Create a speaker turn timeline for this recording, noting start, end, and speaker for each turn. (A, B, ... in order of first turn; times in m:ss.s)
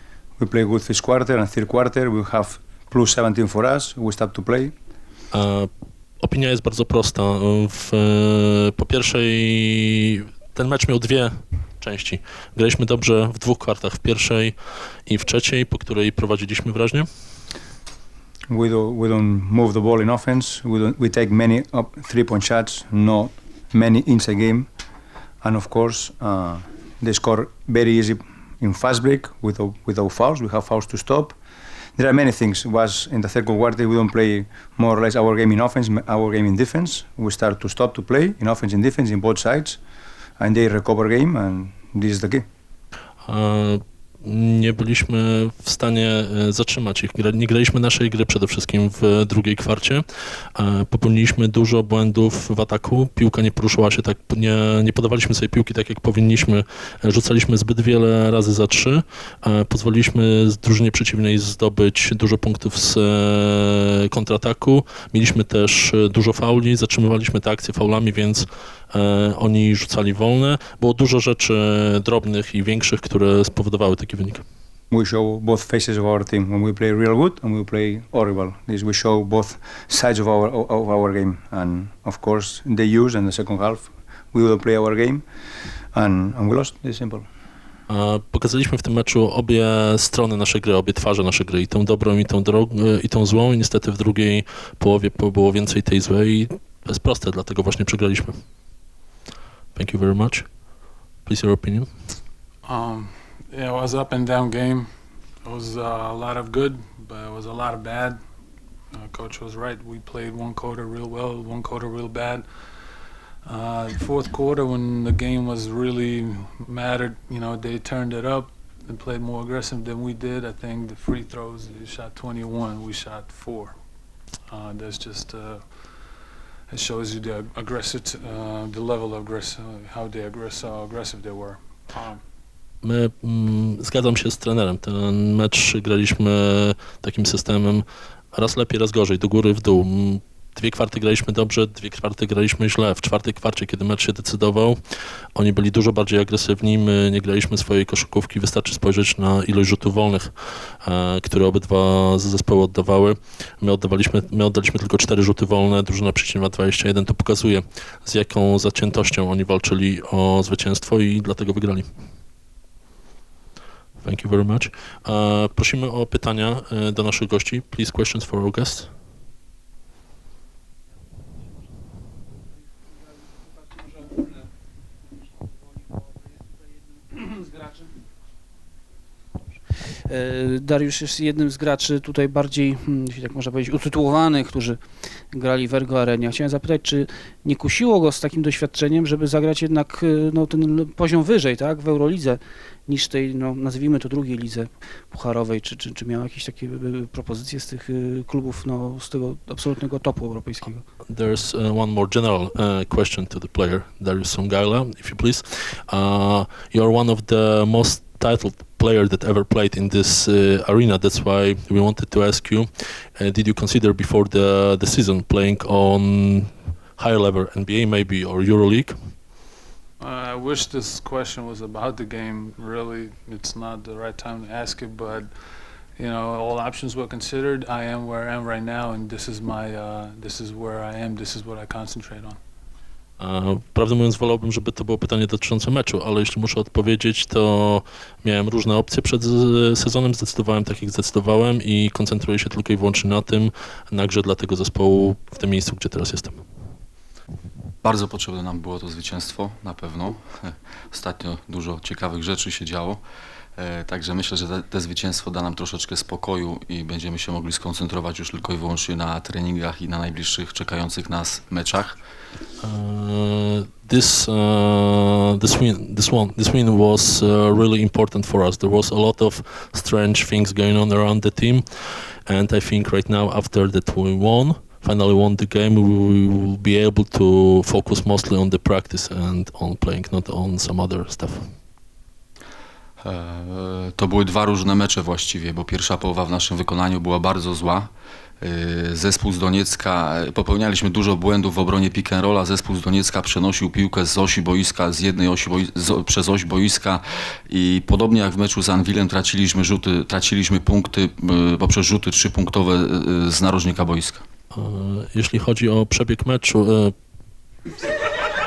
0:00.4-0:04.7 A
0:05.3-0:05.7 B
0:06.2-0:14.6 B
0:15.1-0:17.1 B
0:18.5-0:24.7 A
0:25.4-0:31.4 A
0:32.0-0:39.8 A
0:40.4-0:42.5 A
0:43.3-1:14.4 B
1:14.9-1:25.2 A
1:25.9-1:27.3 A
1:27.9-1:38.3 B
1:39.8-1:40.5 B
1:41.3-1:41.9 B
1:42.6-1:44.9 C
1:45.4-1:48.2 C
1:48.9-1:52.5 C
1:53.4-2:03.8 C
2:04.5-2:05.9 C
2:06.7-2:12.2 C
2:12.8-2:24.8 B
2:25.4-2:41.9 B
2:44.0-2:48.9 B
2:53.6-2:54.3 D
2:55.8-2:56.1 D
2:57.1-2:57.9 D
3:00.1-3:20.8 D
3:21.1-3:38.9 B
3:40.0-3:45.3 C
3:46.0-3:52.4 C
3:53.2-4:06.4 B
4:07.8-4:13.0 E
4:13.6-4:22.0 E
4:22.6-4:41.4 B
4:43.0-4:47.9 E
4:48.4-5:04.2 E
5:04.5-5:06.9 B